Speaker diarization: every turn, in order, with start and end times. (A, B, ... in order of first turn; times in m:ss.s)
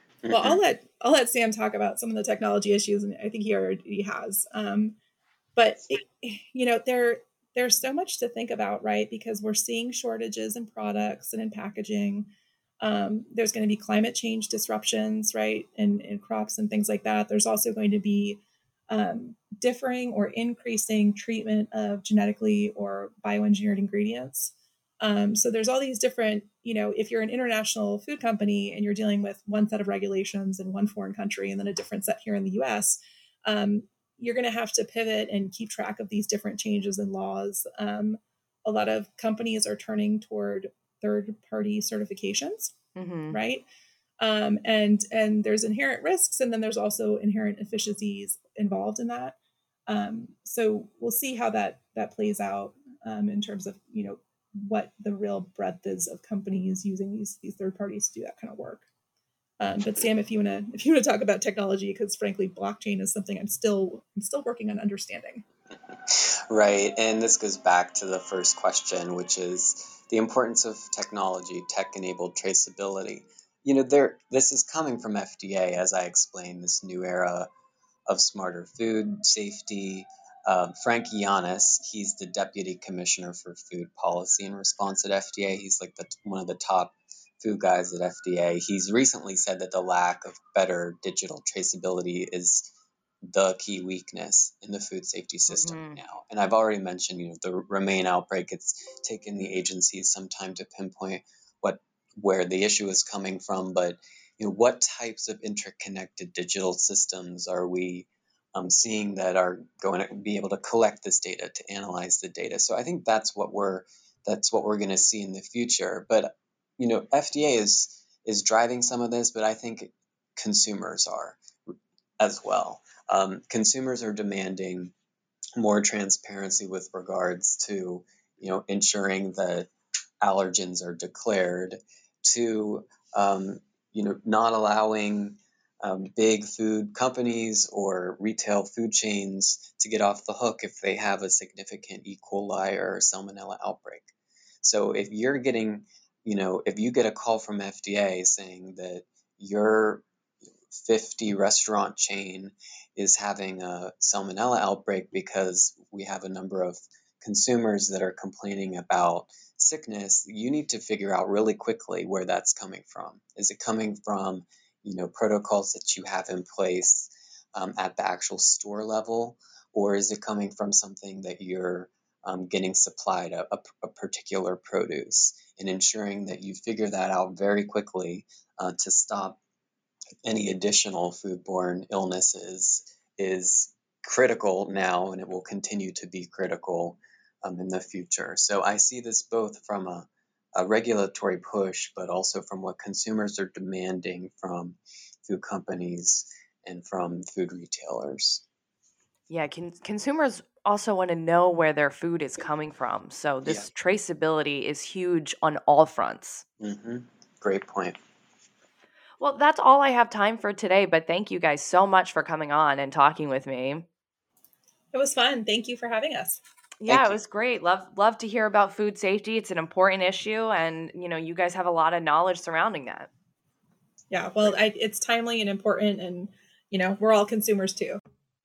0:00.2-0:00.6 A
0:00.3-0:05.0 B
0:05.6-0:12.3 B
0:12.8-0:42.7 B
0:43.0-0:43.4 C
0:43.3-0:43.7 B
0:44.2-0:49.4 B
0:49.9-0:58.9 B
0:59.6-1:05.4 B
1:06.1-1:17.5 A
1:18.1-1:32.7 A
1:33.2-2:04.9 A
1:35.5-1:36.0 C
2:05.6-2:09.7 A
2:10.2-2:30.0 A
2:30.7-2:59.4 A
3:00.2-3:18.4 A
3:19.3-3:26.4 C
3:26.6-3:28.0 A
3:29.2-3:33.8 C
3:34.9-3:36.4 B
3:36.8-3:43.1 C
3:36.9-3:37.2 A
3:44.1-3:48.0 B